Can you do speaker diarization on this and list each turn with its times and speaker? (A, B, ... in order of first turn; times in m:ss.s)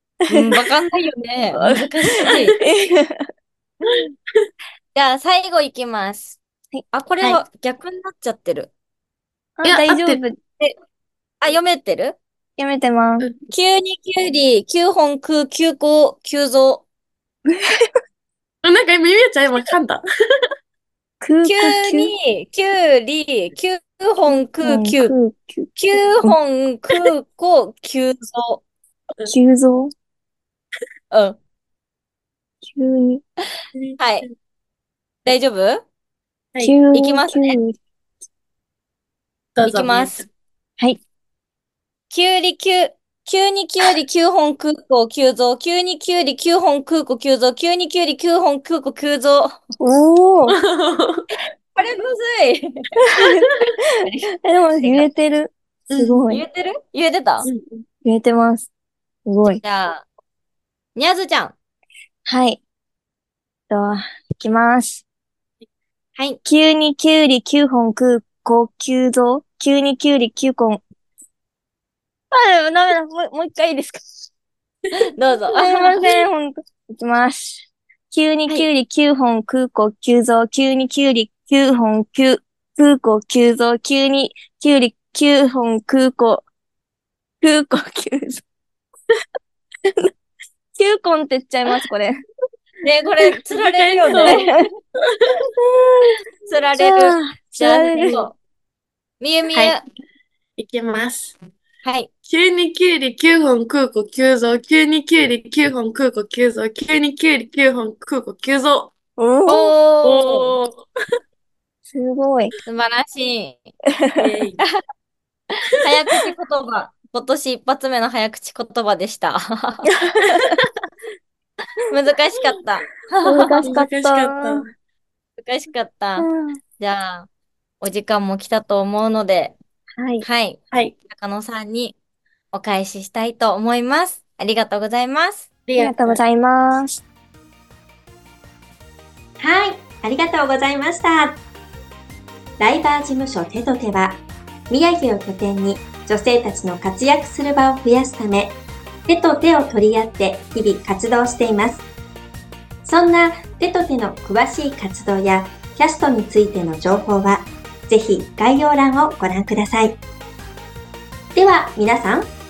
0:00.3-0:02.6 A
0:00.3-0:00.5 B
0:01.5-0:03.2 B
0:02.2-0:02.6 C
0:04.9-0:06.4 A
0:06.9-0:08.7 A
0:09.6-0:10.4 B
0:09.6-0:10.2 C
0:11.4-0:12.2 A
0:12.6-0:13.3 B
0:13.5-0:16.8 A
0:18.6-0:20.0 C
0:21.2-0:22.1 B
0:21.4-0:25.1 A
0:24.6-0:26.4 B
0:25.8-0:28.6 A
0:29.2-0:29.9 B
0:31.1-0:31.4 A
0:32.6-0:33.2 B
0:33.7-0:34.3 C
0:34.0-0:34.2 A
0:35.2-0:35.8 A
0:36.6-0:37.8 B
0:36.9-0:37.6 A
0:39.6-0:40.3 C
0:39.6-0:40.2 A
0:42.1-0:49.6 A
0:49.8-0:50.6 B
0:50.5-0:51.3 C
0:51.7-0:52.8 A
0:53.0-0:53.5 B
0:53.2-0:53.7 C
0:54.4-0:56.4 B
0:54.8-0:55.1 A
0:55.9-0:56.2 C
0:56.3-0:57.5 A
0:57.4-0:57.8 C
0:58.0-0:58.7 B
0:59.2-0:59.6 B
0:59.6-1:00.0 A
1:01.0-1:01.5 A
1:02.3-1:02.6 B
1:03.7-1:05.0 B
1:06.4-1:10.8 B
1:12.3-1:14.3 B
1:15.0-1:16.2 A
1:15.5-1:26.4 B
1:27.4-1:28.4 B
1:30.7-1:32.2 B
1:32.8-1:34.5 A
1:33.5-1:34.4 C
1:34.0-1:34.6 B
1:35.0-1:35.4 C
1:35.6-1:36.1 B
1:36.5-1:38.3 A
1:36.8-1:38.3 B
1:39.2-1:39.8 A
1:40.6-1:41.4 C
1:41.8-1:42.1 A
1:42.2-1:48.9 C
1:49.2-1:49.7 B
1:49.5-1:50.5 A
1:50.0-1:50.8 C
1:51.9-1:52.6 B
1:52.6-1:53.7 A
1:54.2-1:54.6 C
1:55.8-1:59.9 A
2:00.0-2:00.6 B
2:01.9-2:03.6 A
2:03.2-2:04.6 B
2:03.6-2:04.7 C
2:05.4-2:06.3 A
2:06.2-2:06.6 B
2:06.8-2:07.3 A
2:07.8-2:09.6 A
2:10.0-2:10.3 B
2:10.2-2:12.0 A
2:12.5-2:15.5 A
2:15.7-2:16.2 C
2:15.8-2:17.0 B
2:19.4-2:21.4 D
2:22.6-2:31.8 D
2:32.8-2:40.0 D
2:41.3-2:42.3 D